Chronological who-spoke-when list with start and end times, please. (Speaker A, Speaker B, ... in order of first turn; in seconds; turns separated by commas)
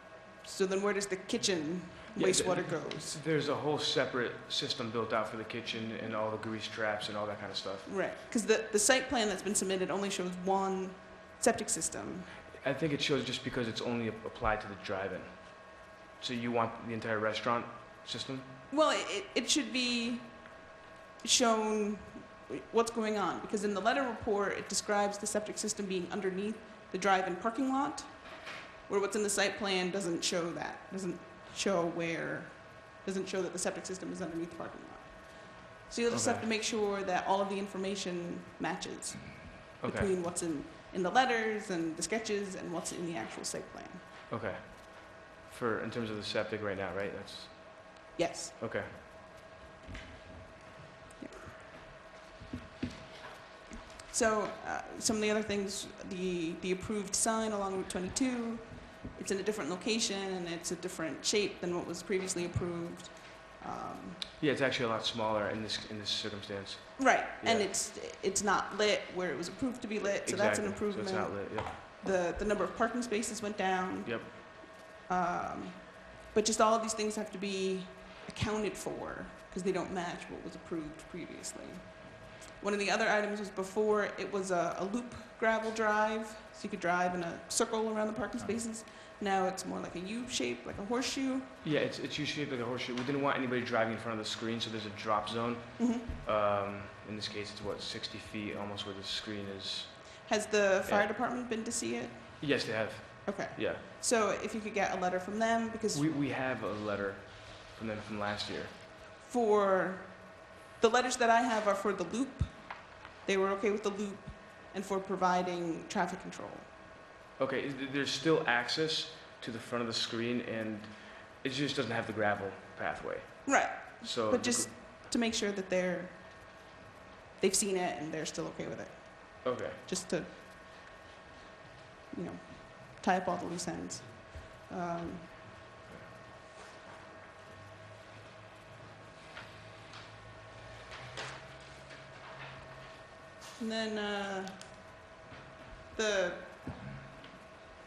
Speaker A: 0.4-3.2, Speaker B: 2.1-7.9, Speaker A: 7.8-12.4, Speaker B: 12.6-18.5, Speaker A: 18.7-20.7, Speaker A: 21.2-44.0, Speaker B: 36.1-36.5, Speaker B: 39.8-40.1, Speaker B: 44.3-48.9, Speaker A: 48.1-48.5, Speaker A: 54.1-64.3, Speaker B: 64.4-67.7, Speaker A: 67.0-91.6, Speaker B: 70.2-71.7, Speaker B: 74.0-74.3, Speaker B: 91.6-100.3, Speaker A: 95.8-96.1, Speaker A: 100.2-106.2, Speaker B: 102.4-103.8, Speaker B: 105.9-108.7, Speaker A: 109.2-116.7, Speaker B: 117.4-124.7, Speaker A: 123.4-126.6, Speaker A: 127.4-130.3, Speaker B: 129.4-129.8, Speaker A: 132.1-135.4, Speaker A: 143.6-144.8, Speaker A: 145.9-146.7